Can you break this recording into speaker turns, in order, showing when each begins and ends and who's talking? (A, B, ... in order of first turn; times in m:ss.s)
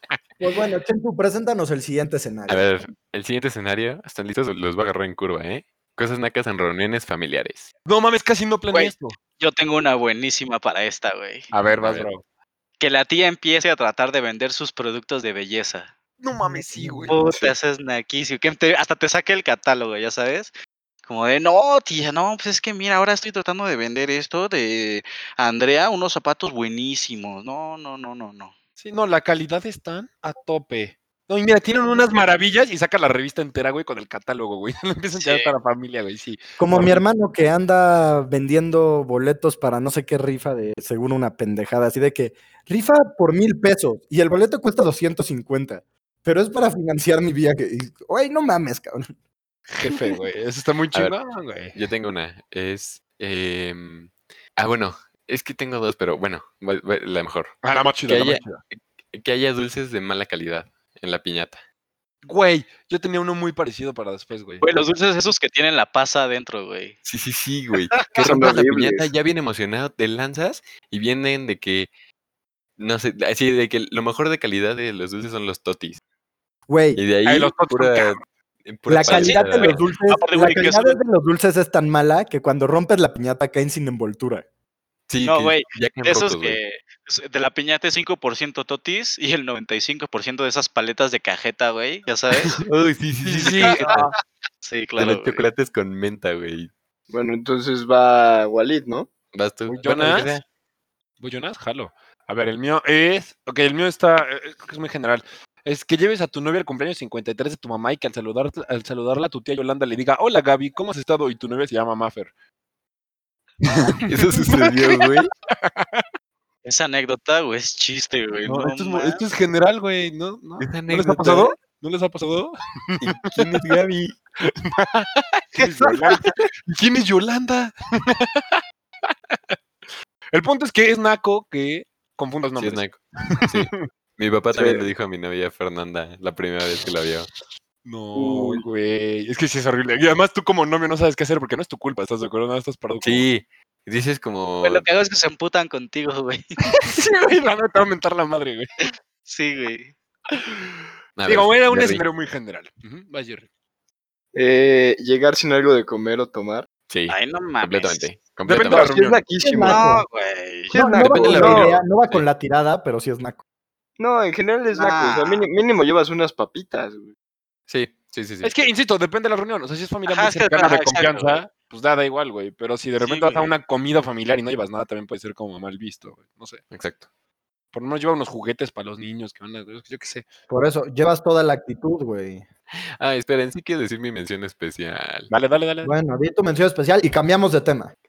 0:00.4-0:02.6 A
0:02.5-0:07.7 B
0:07.9-0:09.2 C
0:08.7-0:11.5 D
0:11.5-0:12.2 C
0:11.8-0:12.1 B
0:12.8-0:15.9 D
0:16.2-0:17.2 C
0:16.6-0:17.1 A
0:17.1-0:20.5 D
0:17.2-0:17.5 E
0:21.1-0:28.5 D
0:28.8-0:37.0 C
0:35.2-0:35.5 D
0:36.6-0:49.1 A
0:49.7-0:51.8 C
0:51.7-0:58.5 B
0:57.6-0:58.6 C
0:59.1-1:01.6 B
1:02.2-1:04.6 C
1:04.6-1:07.0 D
1:07.0-1:11.9 B
1:08.2-1:09.1 E
1:12.8-1:16.0 B
1:16.7-1:17.0 A
1:17.0-1:19.8 B
1:17.3-1:18.2 C
1:18.9-1:24.4 A
1:19.1-1:21.0 D
1:25.1-1:26.6 B
1:25.2-1:32.6 D
1:32.6-1:34.1 B
1:33.2-1:34.1 C
1:33.6-1:35.5 D
1:35.0-1:36.7 B
1:37.1-1:39.1 E
1:39.3-1:40.4 B
1:39.7-1:40.4 C
1:41.2-1:52.3 C
1:53.6-1:55.1 C
1:54.1-1:55.3 B
1:55.6-1:56.0 C
1:56.6-1:59.2 D
1:58.5-2:03.6 C
2:00.6-2:01.6 B
2:03.0-2:04.2 B
2:04.4-2:08.6 C
2:10.3-2:13.8 C
2:12.6-2:17.3 B
2:14.5-2:14.9 E
2:17.8-2:23.3 C
2:18.2-2:18.6 E
2:23.0-2:24.9 B
2:24.6-2:26.6 D
2:26.7-2:28.7 C
2:28.8-2:29.9 D
2:31.2-2:32.0 B
2:31.3-2:33.5 C
2:34.3-2:36.7 E
2:36.9-2:38.9 B
2:37.1-2:38.1 D
2:38.4-2:39.3 C
2:38.6-2:39.9 E
2:39.4-2:40.1 A
2:39.6-2:40.7 D
2:40.7-2:41.7 E
2:40.7-2:43.4 A
2:41.0-2:42.3 B
2:44.0-2:47.1 E
2:44.7-2:45.5 D
2:47.7-2:48.5 B
2:48.4-2:56.6 C
2:50.1-2:51.4 D
2:53.0-2:53.5 D
2:56.7-2:57.1 B
2:57.7-3:00.2 C
3:00.5-3:02.5 A
3:03.0-3:05.3 B
3:05.3-3:05.9 C
3:05.8-3:07.9 A